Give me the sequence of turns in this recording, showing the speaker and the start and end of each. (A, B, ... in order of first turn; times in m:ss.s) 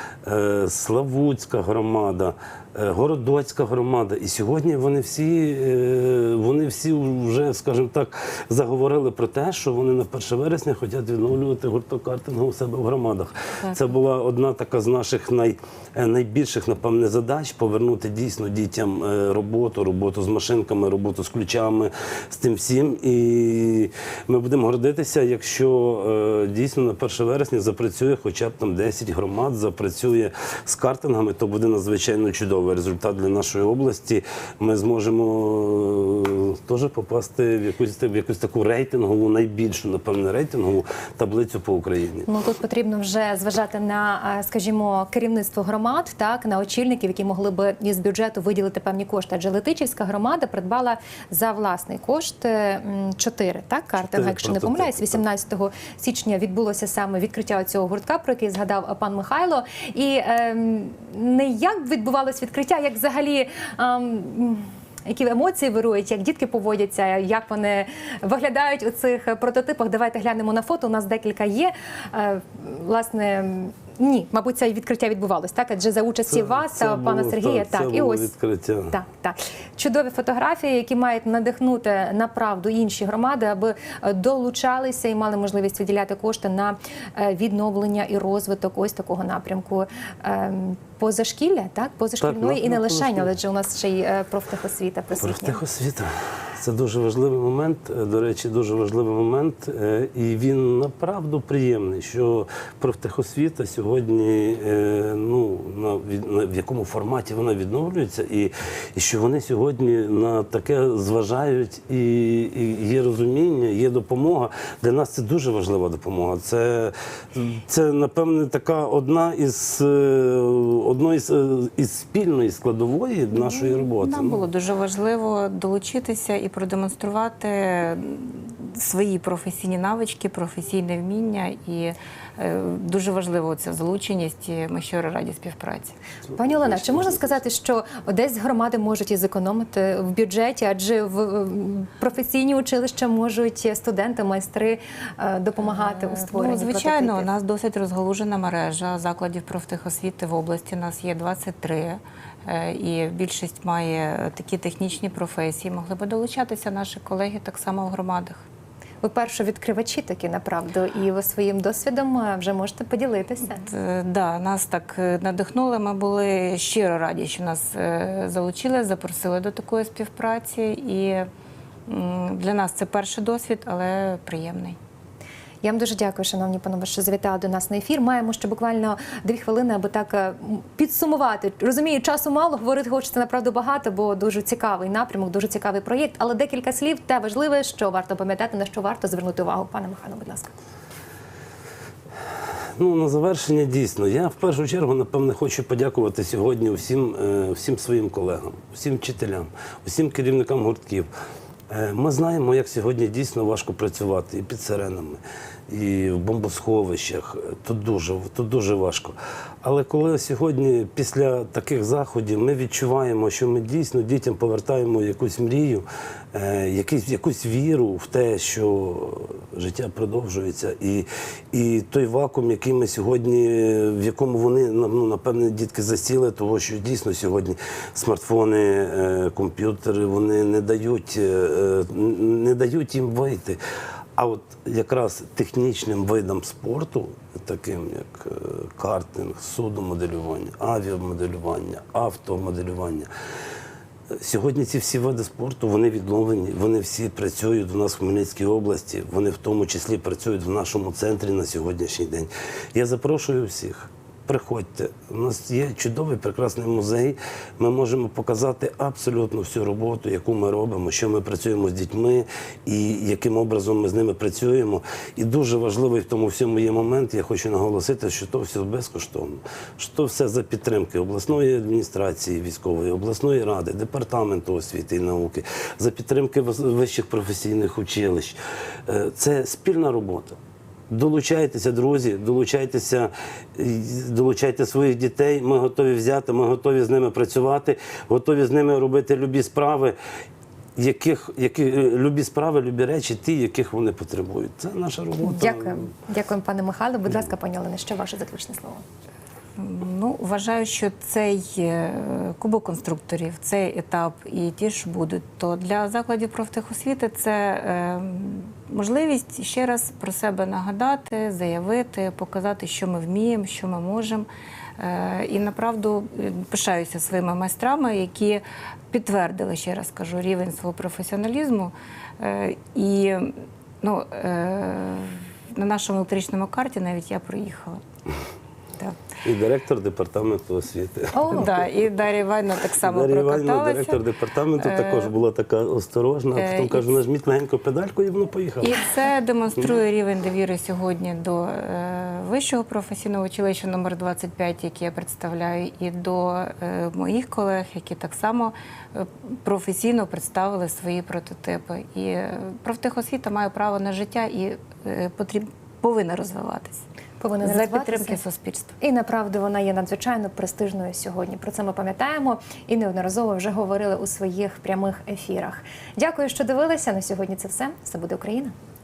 0:00.2-0:42.3 A
0:42.3-1:18.3 B
0:54.0-0:55.2 A
1:16.3-1:19.0 A
1:18.9-1:35.6 B
1:32.2-1:33.3 A
1:35.2-2:04.4 A
2:03.3-2:16.0 C
2:16.3-2:17.4 A
2:16.4-2:27.3 B
2:25.8-2:38.4 C
2:39.0-2:43.6 B
2:43.6-2:51.3 C
2:51.9-2:54.8 C
2:55.6-3:10.5 B
3:12.8-3:21.1 A
3:21.7-3:53.6 A
3:54.2-4:03.1 A
4:04.1-4:40.4 A
4:40.9-4:50.0 A
4:50.8-4:55.9 A
4:55.2-4:58.8 B
4:59.6-5:14.3 C
5:14.8-5:27.8 C
5:29.2-5:31.7 A
5:31.1-5:31.5 B
5:31.3-5:34.0 C
5:32.8-5:38.8 A
5:34.6-5:35.1 C
5:36.3-5:37.0 C
5:38.6-5:56.8 C
5:57.2-5:58.2 B
5:57.4-5:58.7 C
5:58.8-6:08.5 B